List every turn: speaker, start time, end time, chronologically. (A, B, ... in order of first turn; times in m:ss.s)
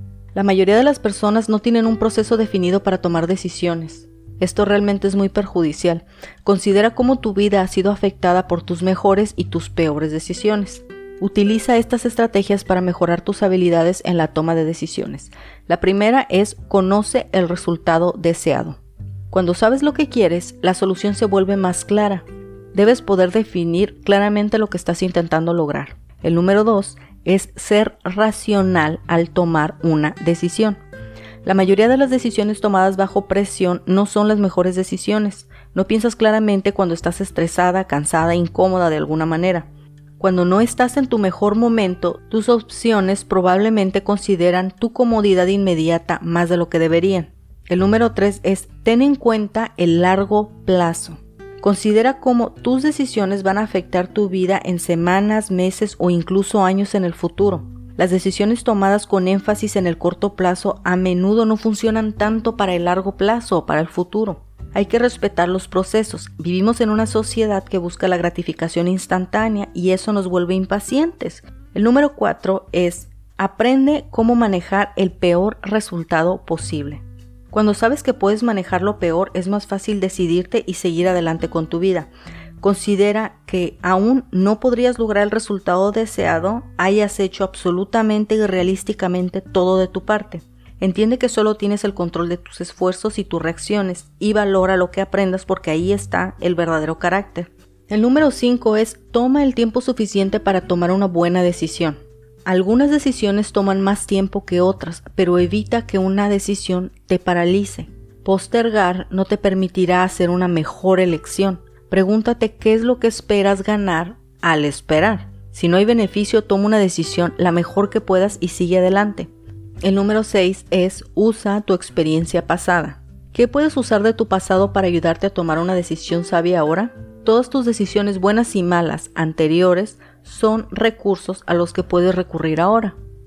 0:00.3-0:18.8 A
0:19.3-0:30.8 A
0:31.4-0:39.7 A
0:40.2-1:22.1 A
1:22.6-1:59.3 A
1:59.8-2:13.0 A